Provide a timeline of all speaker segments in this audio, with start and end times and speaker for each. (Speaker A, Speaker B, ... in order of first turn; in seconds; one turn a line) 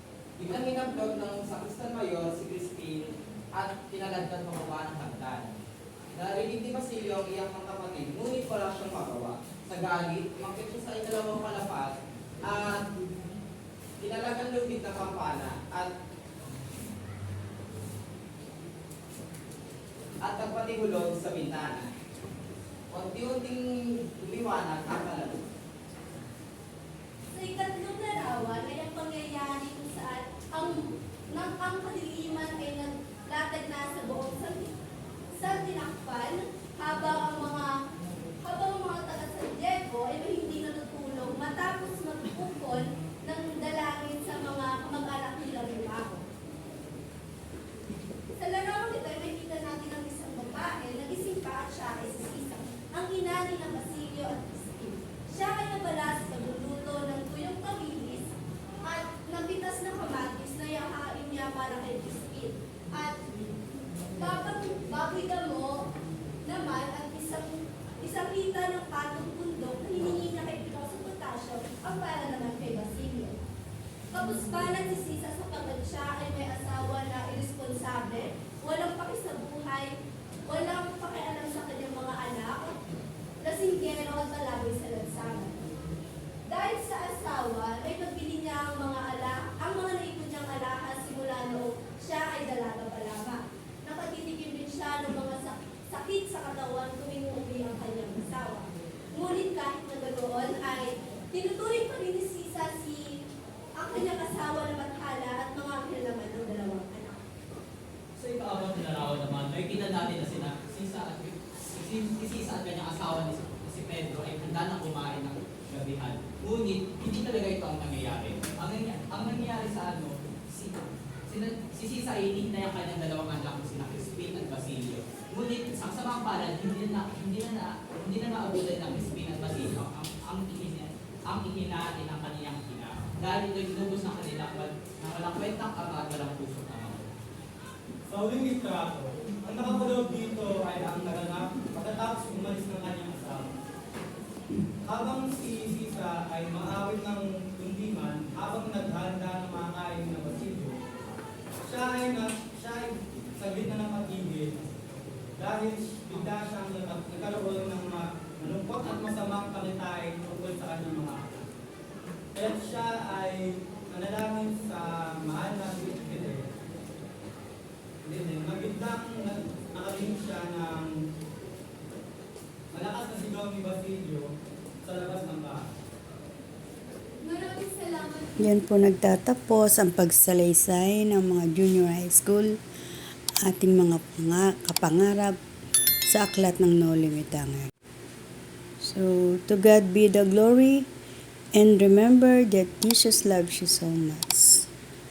Speaker A: 0.4-5.6
Speaker B: 0.4-5.5
Speaker B: 6.1-11.9
Speaker A: 6.1-12.8
Speaker B: 12.5-12.8
Speaker A: 14.0-15.9
Speaker B: 14.0-15.8
Speaker A: 20.2-21.9
Speaker B: 20.2-21.9
Speaker A: 22.9-25.4
Speaker B: 22.9-23.6
Speaker B: 24.2-25.3
Speaker C: 27.3-34.7
Speaker C: 35.3-37.8
Speaker C: 38.4-46.2
Speaker C: 48.4-58.3
Speaker C: 58.8-63.2
Speaker C: 64.2-65.9
Speaker C: 66.4-73.3
Speaker C: 74.1-79.9
Speaker C: 80.5-82.8
Speaker C: 83.4-85.6
Speaker C: 86.5-103.2
Speaker C: 103.8-107.2
Speaker B: 108.2-137.1
Speaker D: 138.1-143.6
Speaker D: 144.8-150.8
Speaker D: 151.6-154.8
Speaker D: 155.4-161.5
Speaker D: 162.3-166.5
Speaker D: 168.0-171.0
Speaker D: 172.7-174.3
Speaker D: 174.8-175.6
Speaker C: 177.2-178.3
Speaker E: 178.4-182.6
Speaker E: 183.4-185.4
Speaker E: 186.1-187.7
Speaker E: 188.8-190.9
Speaker E: 191.6-194.7